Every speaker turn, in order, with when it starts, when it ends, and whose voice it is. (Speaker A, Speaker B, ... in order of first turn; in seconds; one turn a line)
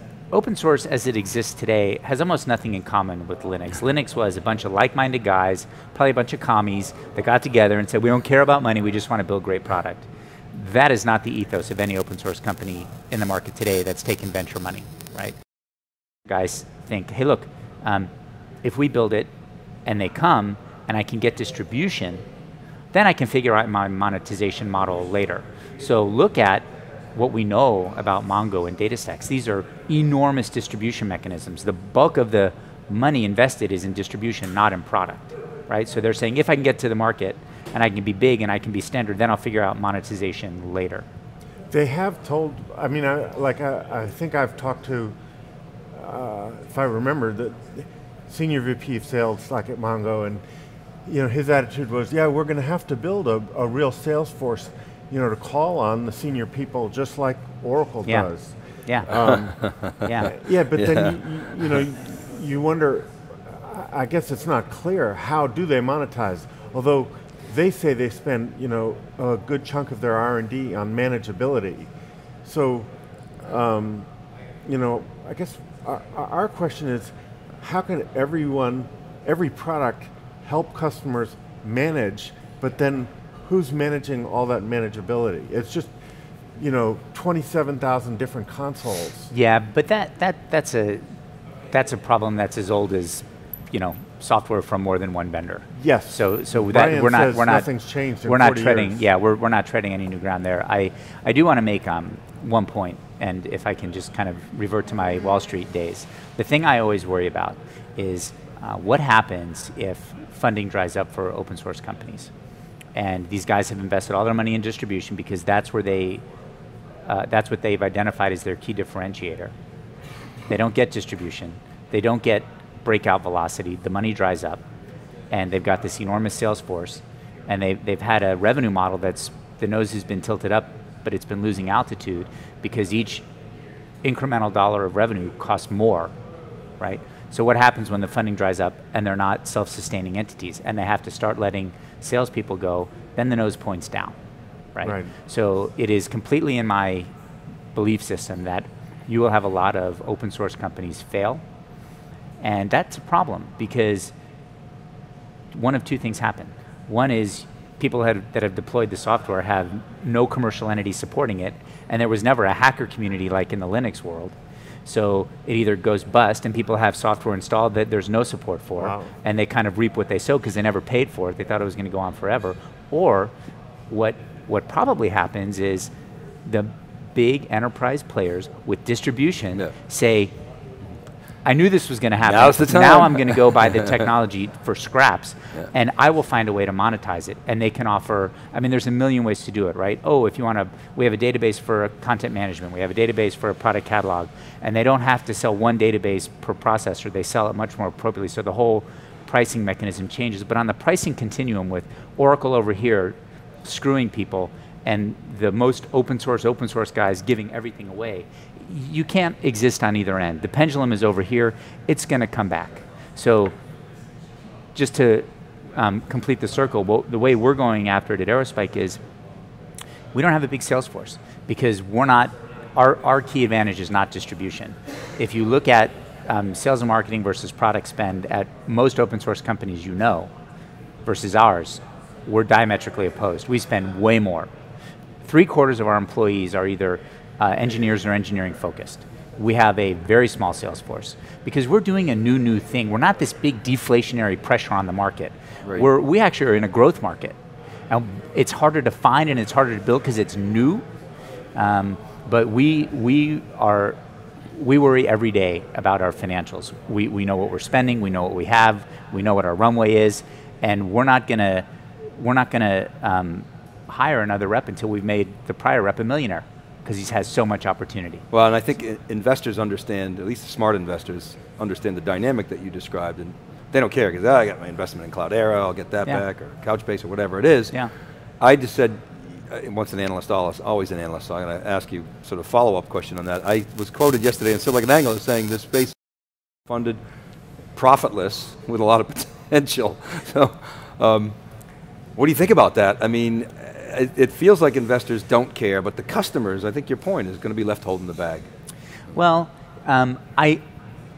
Speaker A: 0.3-15.4
Speaker A: 16.3-18.1
Speaker A: 18.6-19.3
Speaker A: 19.9-22.2
Speaker A: 22.9-41.1
Speaker B: 41.7-45.1
Speaker B: 45.9-50.4
Speaker B: 51.1-71.9
Speaker A: 58.9-59.1
Speaker A: 60.0-60.4
Speaker C: 60.8-61.2
Speaker B: 72.5-72.9
Speaker B: 73.4-74.1
Speaker B: 74.7-85.9
Speaker B: 86.6-89.3
Speaker A: 89.3-91.0
Speaker A: 91.7-97.7
Speaker B: 95.8-99.0
Speaker A: 98.2-112.3
Speaker A: 113.0-116.2
Speaker A: 117.1-119.5
Speaker A: 120.5-124.6
Speaker A: 125.3-133.3
Speaker A: 134.0-136.1
Speaker A: 136.8-144.2
Speaker A: 144.7-147.1
Speaker B: 144.8-145.1
Speaker A: 147.7-151.4
Speaker A: 152.4-154.1
Speaker A: 155.5-173.3
Speaker B: 168.8-169.1
Speaker A: 173.9-175.9
Speaker A: 176.4-180.3
Speaker A: 181.4-213.5
Speaker C: 182.2-183.9
Speaker A: 214.8-219.0
Speaker A: 220.1-230.3
Speaker A: 231.0-234.5
Speaker A: 235.2-247.4
Speaker A: 247.9-250.8
Speaker A: 251.6-254.0
Speaker A: 254.5-268.2
Speaker C: 268.3-277.8
Speaker C: 278.4-286.0
Speaker C: 286.7-287.0
Speaker C: 287.8-291.4
Speaker C: 292.2-298.5
Speaker A: 299.1-300.6